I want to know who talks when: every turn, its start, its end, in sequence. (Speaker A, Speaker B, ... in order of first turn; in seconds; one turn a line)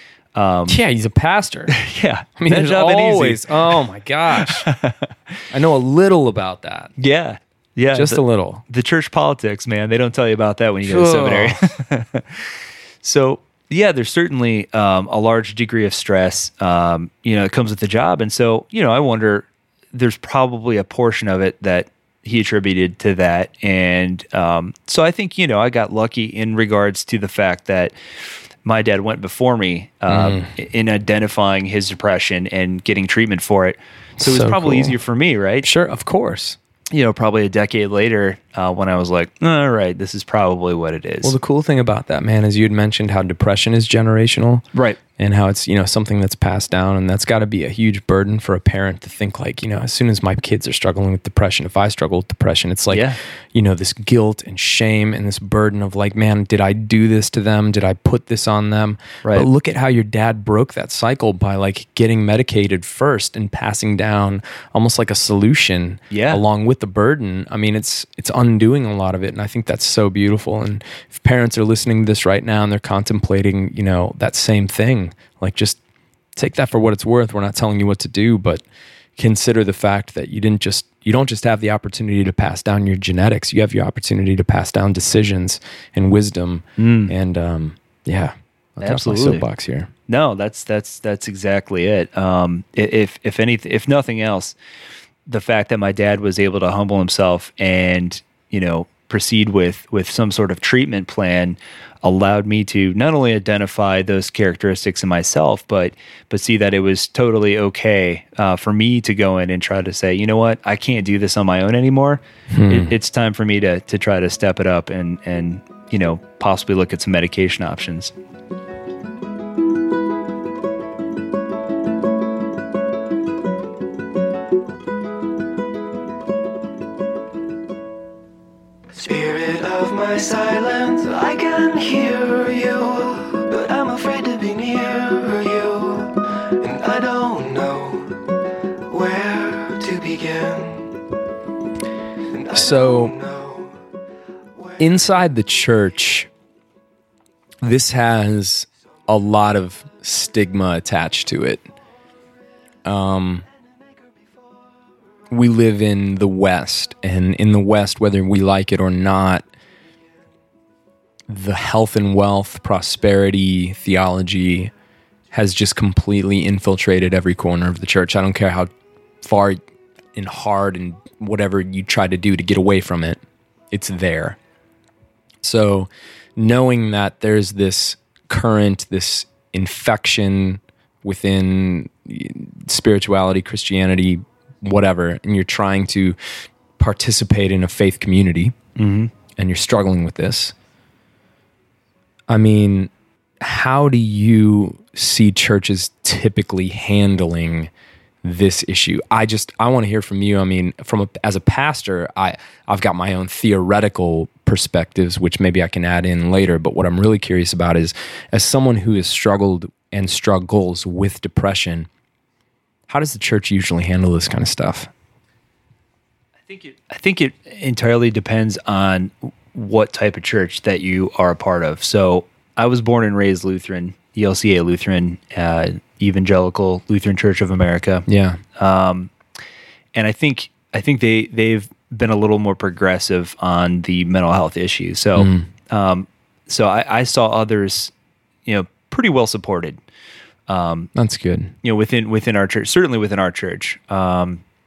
Speaker A: 0.3-0.8
Speaker B: 0.7-1.8
Speaker A: 1.7-5.4
Speaker B: 2.4-4.7
Speaker B: 5.5-6.9
Speaker A: 7.0-27.9
Speaker B: 7.9-8.6
Speaker B: 10.8-11.7
Speaker A: 28.6-35.7
Speaker B: 30.1-30.5
Speaker B: 34.2-34.9
Speaker B: 35.6-36.6
Speaker A: 36.9-41.3
Speaker B: 41.2-44.6
Speaker A: 44.7-45.0
Speaker B: 45.2-75.8
Speaker A: 52.9-53.2
Speaker A: 66.1-66.4
Speaker B: 76.3-78.6
Speaker B: 79.2-89.9
Speaker A: 86.8-87.1
Speaker A: 88.8-89.4
Speaker A: 90.1-94.5
Speaker A: 95.3-118.1
Speaker B: 112.5-112.9
Speaker C: 128.9-140.9
Speaker C: 142.3-143.8
Speaker B: 142.5-143.2
Speaker C: 144.6-144.8
Speaker B: 144.8-146.3
Speaker B: 147.6-151.7
Speaker B: 152.8-153.4
Speaker B: 155.3-159.4
Speaker B: 161.3-164.7
Speaker B: 165.3-169.6
Speaker B: 170.1-173.2
Speaker B: 173.7-174.4
Speaker B: 175.4-186.2
Speaker B: 186.8-188.6
Speaker A: 188.8-189.1
Speaker B: 189.4-190.5
Speaker B: 192.3-192.9
Speaker B: 193.4-197.7
Speaker B: 198.2-211.9
Speaker B: 212.9-214.9
Speaker A: 216.4-228.0
Speaker B: 228.1-228.4
Speaker A: 228.6-229.1
Speaker A: 229.9-237.9
Speaker B: 235.2-235.5
Speaker A: 238.4-239.8
Speaker A: 240.5-240.9
Speaker B: 240.9-241.5
Speaker A: 241.6-244.4